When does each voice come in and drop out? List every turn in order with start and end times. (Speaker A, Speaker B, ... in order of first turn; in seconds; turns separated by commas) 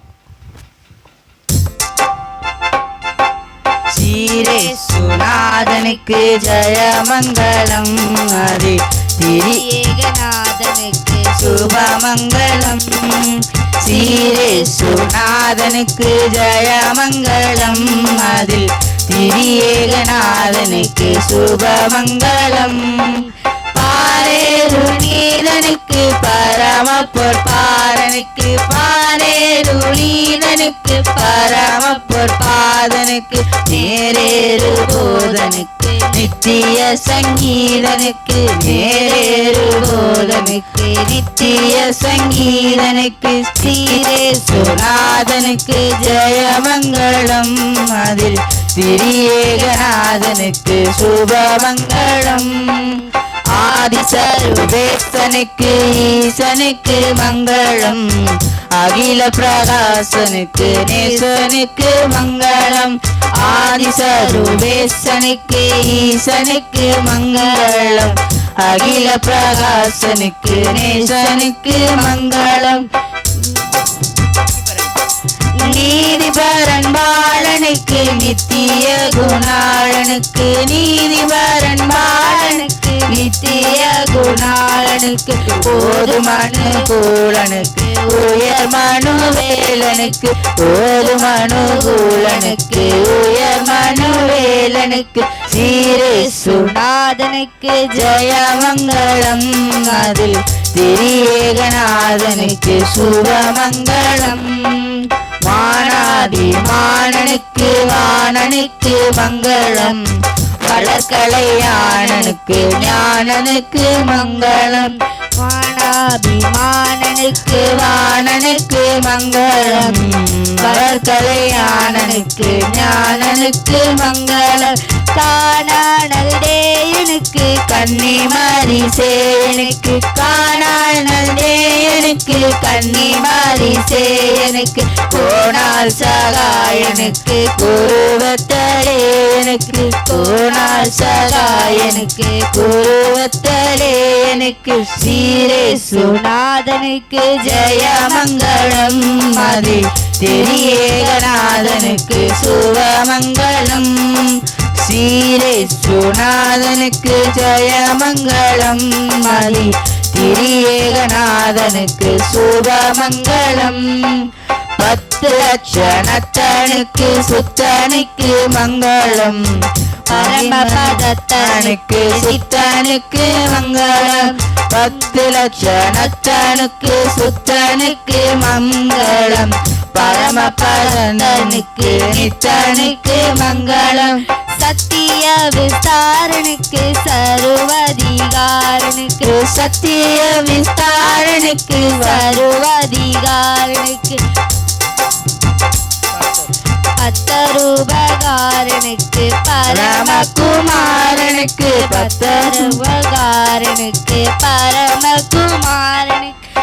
Speaker A: 3.9-9.7, Speaker B: 4.3-5.9, Speaker B: 9.3-11.9, Speaker A: 11.3-40.6, Speaker B: 19.3-21.2, Speaker B: 31.0-32.2, Speaker B: 33.7-36.3, Speaker B: 38.6-42.0, Speaker A: 41.3-72.9, Speaker B: 43.6-44.8, Speaker B: 60.5-61.3, Speaker B: 64.0-64.6, Speaker B: 70.6-70.9, Speaker A: 75.5-96.7, Speaker B: 75.6-76.1, Speaker B: 82.0-84.6, Speaker B: 85.6-88.4, Speaker B: 91.1-93.1, Speaker B: 95.6-98.0, Speaker A: 97.9-110.1, Speaker B: 99.8-100.1, Speaker B: 102.6-104.5, Speaker B: 105.7-106.7, Speaker B: 109.2-110.0, Speaker A: 110.6-115.0, Speaker B: 110.7-113.0, Speaker B: 114.0-117.9, Speaker A: 117.5-124.7, Speaker B: 119.5-128.4, Speaker A: 127.7-146.2, Speaker B: 132.5-137.6, Speaker B: 139.9-142.5, Speaker B: 145.2-149.8, Speaker A: 147.4-184.2, Speaker B: 150.4-152.2, Speaker B: 170.1-172.4, Speaker B: 175.6-176.1, Speaker B: 178.9-189.3, Speaker A: 189.2-192.4, Speaker B: 191.9-194.2, Speaker B: 197.0-206.4, Speaker A: 199.7-202.8